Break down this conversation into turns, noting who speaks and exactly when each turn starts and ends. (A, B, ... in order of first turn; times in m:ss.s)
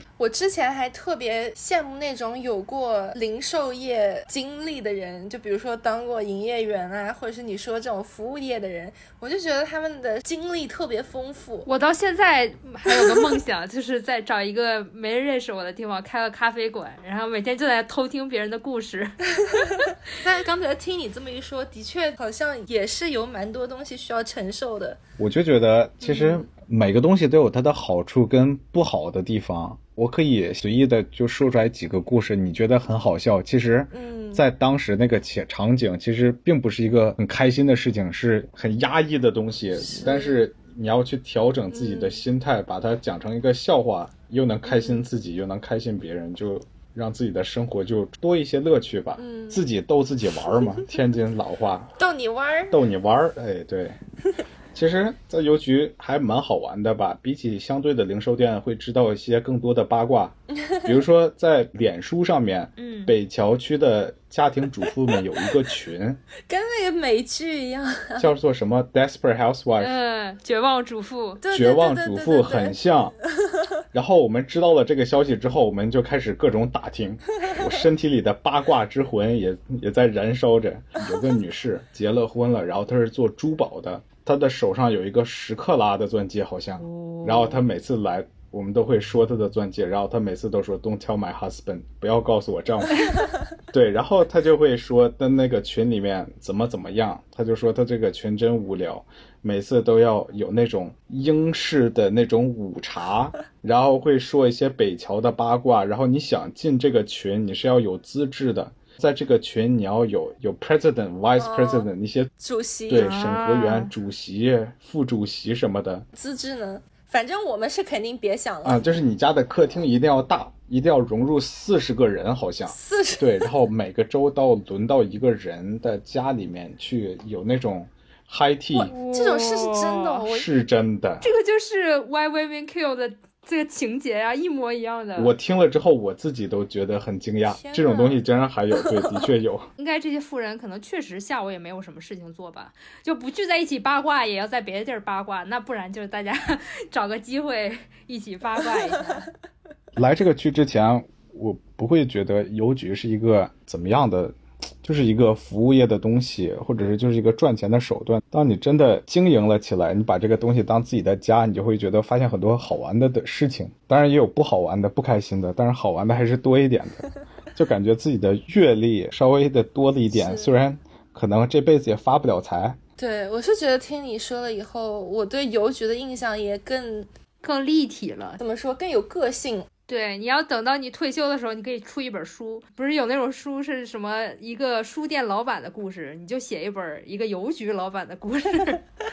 0:00.2-0:11.7 A
0:11.6-0:19.9 B
0:12.8-0:13.2 A
0:20.2-0:25.0 A
0:25.2-0:51.9 C
0:26.0-0:26.4 A
0:33.9-0:34.4 A
0:39.7-0:40.4 A
0:41.7-0:42.2 A
0:44.6-0:45.0 A
0:49.2-0:49.6 A
0:52.0-0:52.8 A
0:52.7-0:54.0 C
0:54.7-1:06.2 C
1:00.5-1:00.9 A
1:02.8-1:03.1 B
1:06.5-1:08.3 A
1:08.2-1:09.9 C
1:09.8-1:11.4 B
1:11.4-1:12.8 A
1:11.5-1:13.1 C
1:13.4-1:13.6 A
1:13.9-1:33.2 C
1:26.8-1:27.6 B
1:33.7-1:52.3 C
1:51.4-1:53.1 A
1:52.9-1:56.1 C
1:52.9-1:53.9 B
1:56.1-1:58.8 A
1:58.6-2:08.9 C
2:02.7-2:03.4 A
2:08.7-2:10.5 A
2:08.9-2:10.2 B
2:10.3-2:11.3 C
2:11.2-2:15.3 B
2:15.2-2:19.7 C
2:17.5-2:18.2 A
2:19.8-2:29.3 B
2:30.0-2:52.8 C
2:50.1-2:50.5 A
2:53.0-2:57.1 A
2:57.4-2:58.4 B
2:58.4-2:59.7 A
2:59.9-3:08.8 B